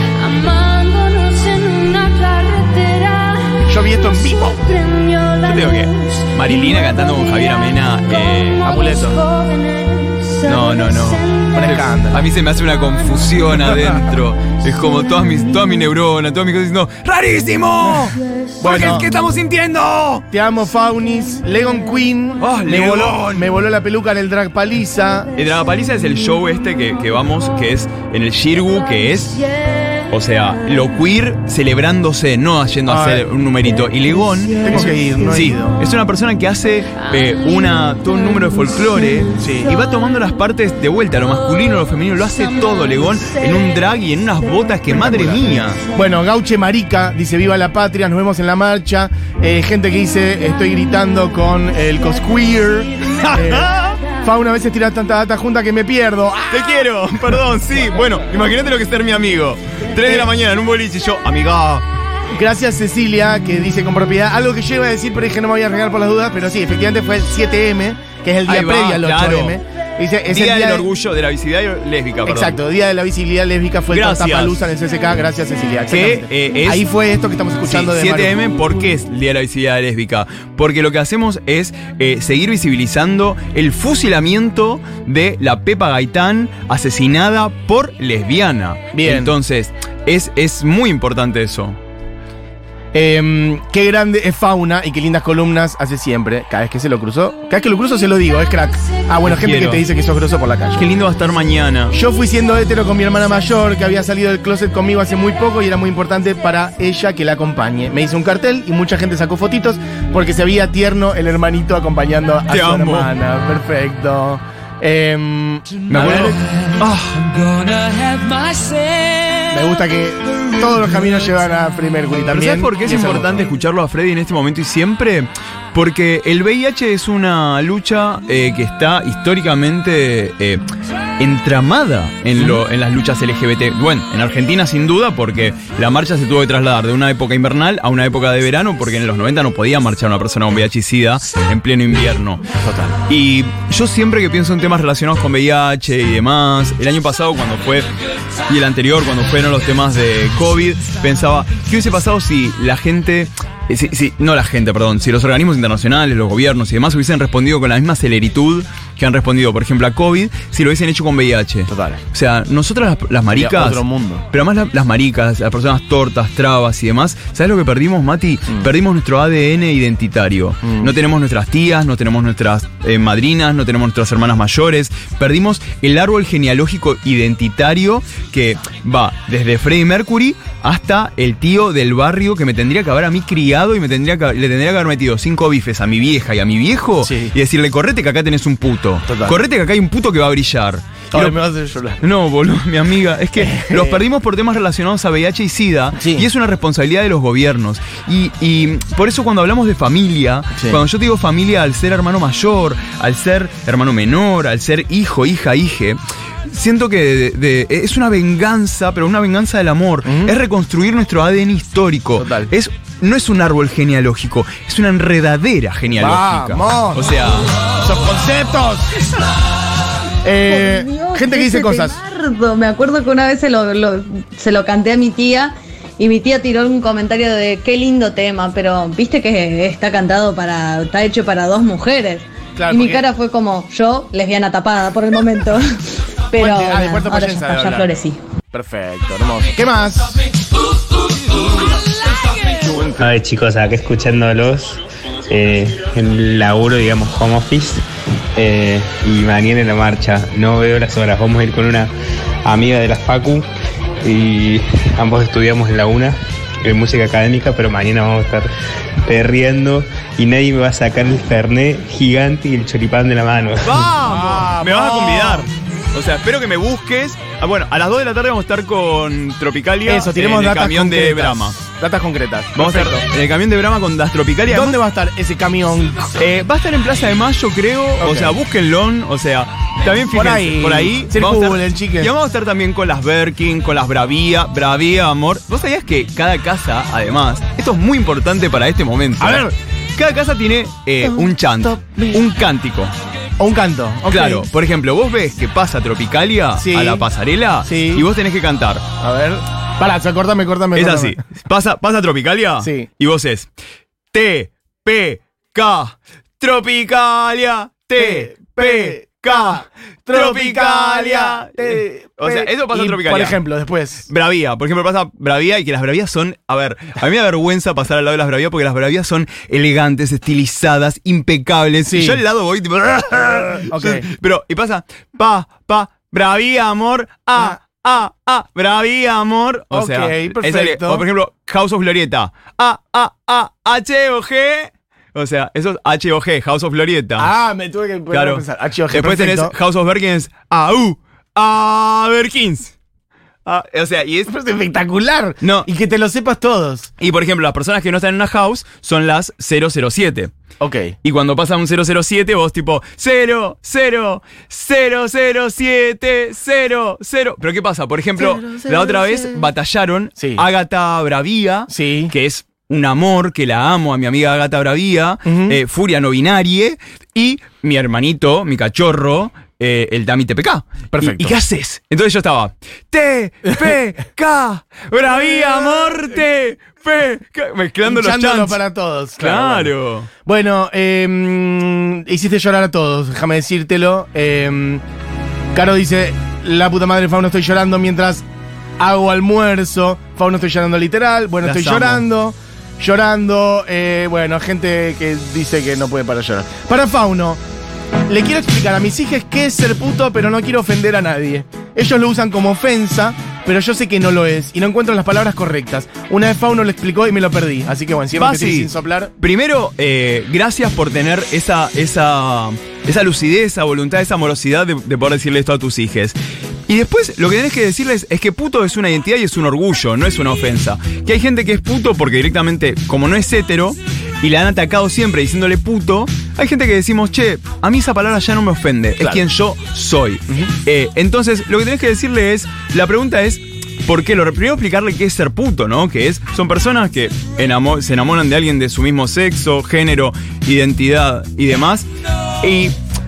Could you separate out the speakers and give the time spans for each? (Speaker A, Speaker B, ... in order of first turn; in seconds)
Speaker A: 0.2-3.6, 4.7-6.5, 8.7-11.1, 29.7-29.9, 42.7-43.4, 116.0-119.5, 358.5-359.2
Speaker B: 3.6-4.7, 8.6-9.2, 11.5-12.2, 17.8-19.1, 20.3-25.3, 32.9-33.2, 34.6-35.8, 39.4-39.7, 44.9-56.9, 60.0-60.3, 62.3-70.9, 72.3-78.4, 88.9-89.3, 92.9-100.9, 101.9-116.4, 119.5-123.4, 142.6-143.0, 161.7-162.0, 163.3-164.2, 170.6-170.9, 187.0-187.3, 189.1-189.4, 191.1-192.0, 193.4-194.0, 195.9-196.3, 200.6-200.8, 210.1-210.3, 212.2-212.5, 216.0-217.2, 217.8-219.1, 220.2-222.0, 232.6-233.1, 236.4-240.2, 242.5-243.0, 264.0-265.5, 269.9-273.0, 274.5-276.2, 278.0-278.4, 280.1-282.1, 289.2-289.5, 291.1-292.2, 293.4-294.5, 296.6-297.1, 297.6-298.1, 299.0-301.2, 302.6-302.9, 308.0-314.1, 321.8-322.2, 323.4-324.1, 329.7-331.1, 337.2-339.5, 344.3-346.9, 350.6-351.0, 360.2-360.4, 361.7-362.1, 365.2-365.6, 370.9-371.4, 377.9-379.7, 380.2-384.8, 385.6-388.2, 388.8-397.4, 398.1-409.1
Speaker C: 5.4-8.7, 10.4-20.2, 22.4-23.5, 25.4-29.5, 30.1-45.8, 53.0-54.0, 56.5-61.9, 68.5-69.6, 70.3-72.6, 73.9-74.6, 75.9-76.9, 77.6-91.8, 99.2-99.8, 100.8-102.0, 112.5-113.1, 115.9-117.2, 122.3-130.6, 131.2-147.9, 148.5-191.4, 192.0-217.5, 263.6-271.6, 272.6-274.8, 276.2-292.9, 294.1-298.8, 300.8-303.5, 304.1-313.4, 314.1-337.3, 338.1-342.7, 343.4-344.3, 345.4-345.7, 347.0-350.3, 351.0-378.6, 379.2-380.1, 391.4-392.1, 408.1-441.9, 442.4-442.8
Speaker D: 220.5-235.8, 236.3-238.2
Speaker E: 243.0-251.9, 252.4-253.5, 254.0-258.5, 259.1-263.9